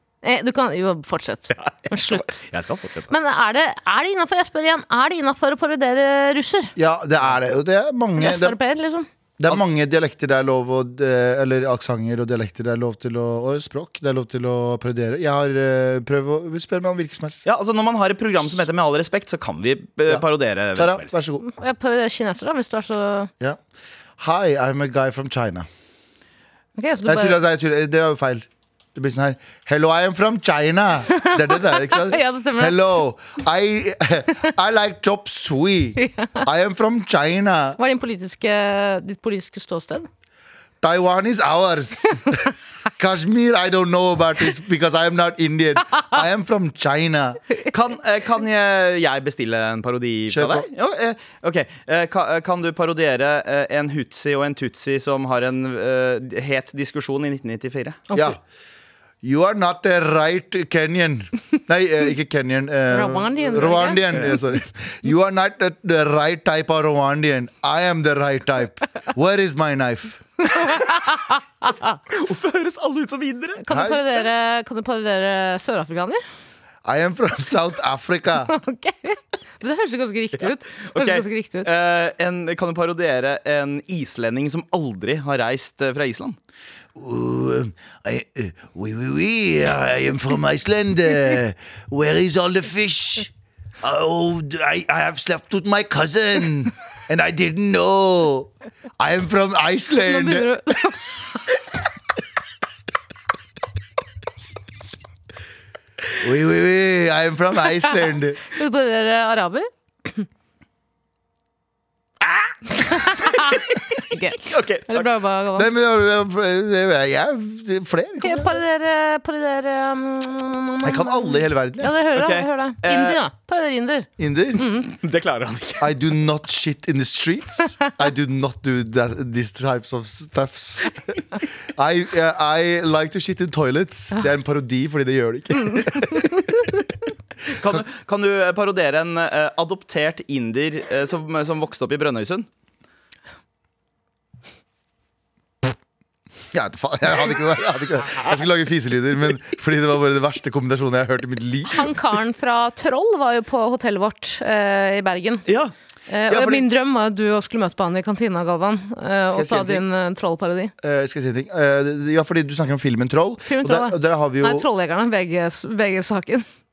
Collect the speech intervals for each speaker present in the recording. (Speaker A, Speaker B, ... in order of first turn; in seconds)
Speaker A: 0.2-2.4, 3.1-6.7, 8.2-9.1, 21.4-23.3, 26.8-27.4, 31.1-32.8, 36.0-36.4, 37.8-40.1, 58.1-58.4, 62.9-64.1, 70.5-72.0, 73.6-76.2, 78.5-81.7, 100.1-101.4, 108.5-110.3, 112.8-115.7, 118.2-124.9, 135.8-136.2, 151.7-155.4, 156.1-160.7, 163.5-166.4
Speaker B: 1.7-3.1, 17.4-21.1, 47.7-58.0, 72.1-73.6, 80.8-86.4, 114.4-115.1, 122.2-123.2, 125.0-125.9, 137.5-142.5, 155.5-155.7
Speaker C: 6.8-8.6, 9.4-17.4, 20.1-21.4, 24.2-25.7, 27.1-37.8, 40.8-42.4, 43.0-47.4, 50.3-50.7, 58.1-58.4, 59.2-70.2, 73.7-74.0, 76.8-78.5, 87.0-100.5, 106.2-108.4, 115.5-118.6, 120.8-121.9, 124.2-124.7, 125.8-136.4, 146.5-151.9, 156.3-156.7, 159.3-159.8, 160.8-164.7